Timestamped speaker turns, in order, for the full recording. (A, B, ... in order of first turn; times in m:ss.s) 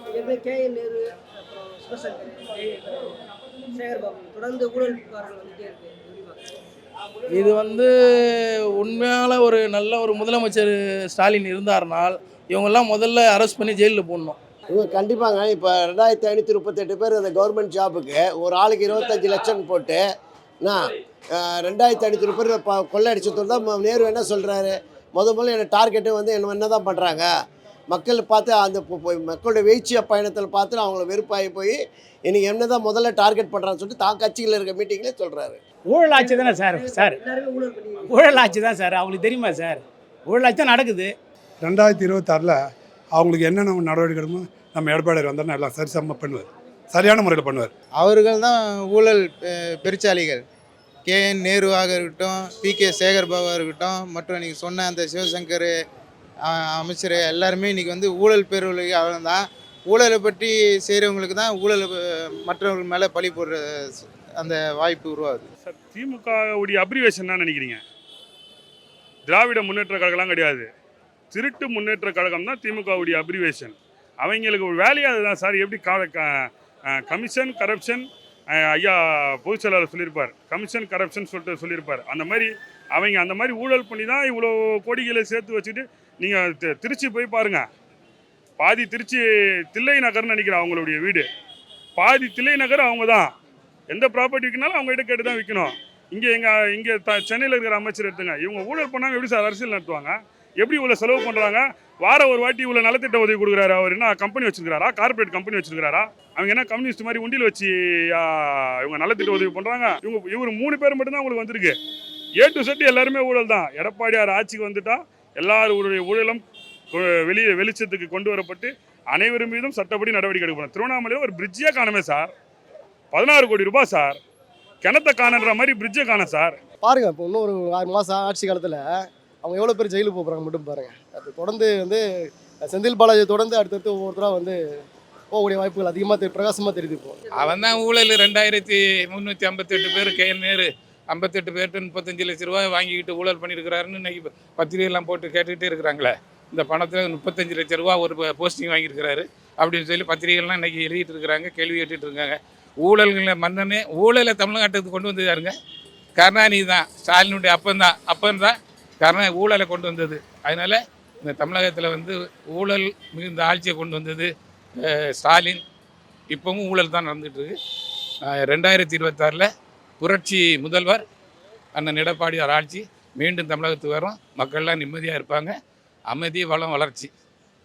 0:00.1-0:01.2 A
0:01.7-0:03.2 A
0:03.7-0:06.4 A
0:07.3-0:14.4 B
0:14.7-0:20.0 C
0:21.4-0:27.3 C
0:27.9-0:35.6 C
0:35.9-0:37.2 D
0:36.2-0:38.2 A
0:38.1-0:41.1 D
0:41.6-0:42.6 E
0:43.2-0:47.7 E
0:48.0-0:50.4 F
0:51.0-0:55.7 F
0:56.5-1:03.6 F
1:04.4-1:05.4 F
1:05.6-1:07.8 G
1:09.3-1:10.6 G
1:11.3-1:16.3 G
1:17.0-1:18.0 G
1:18.5-1:27.6 G
1:28.6-1:31.2 G
1:32.0-1:33.3 G
1:33.9-1:51.7 G
1:52.4-1:56.4 G
1:56.9-2:02.3 G
2:03.1-2:04.2 G
2:04.8-2:06.6 G
2:06.8-2:12.0 H
2:12.6-2:14.6 H
2:15.3-2:17.2 H
2:17.3-2:35.5 I
2:36.2-2:45.6 I
2:46.3-2:47.6 I
2:48.2-2:49.5 I
2:50.0-2:51.0 I
2:51.7-2:55.5 I
2:56.1-2:57.1 I